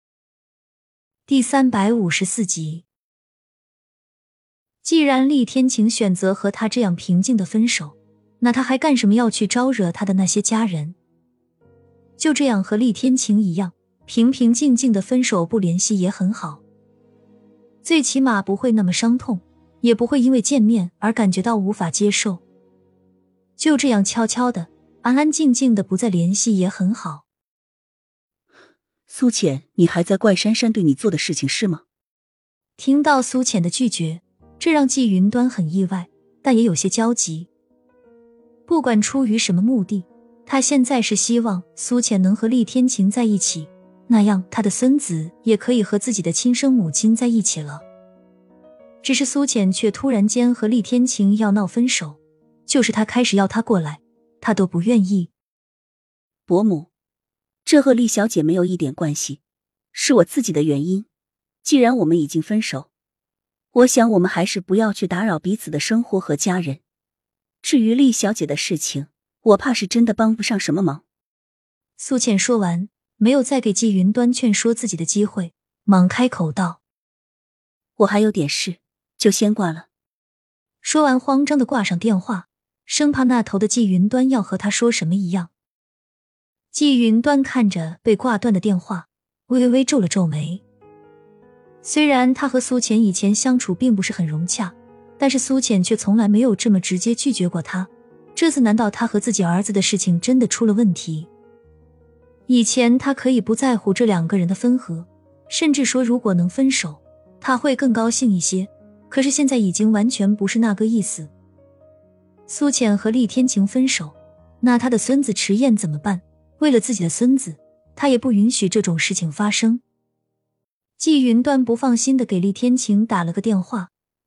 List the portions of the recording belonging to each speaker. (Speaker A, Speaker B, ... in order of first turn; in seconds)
Speaker A: 1.3-2.9, 4.8-11.0, 12.2-16.6, 17.8-22.4, 23.6-27.2, 32.8-37.5, 38.7-47.8, 49.0-55.3, 72.0-76.8, 80.8-85.5, 86.7-90.6, 91.8-101.3, 102.5-111.3, 112.5-119.8, 121.0-123.9
Speaker B: 29.1-31.8, 56.5-56.9, 57.6-59.4, 59.9-61.1, 61.6-62.9, 63.7-66.8, 67.6-71.0, 78.0-79.9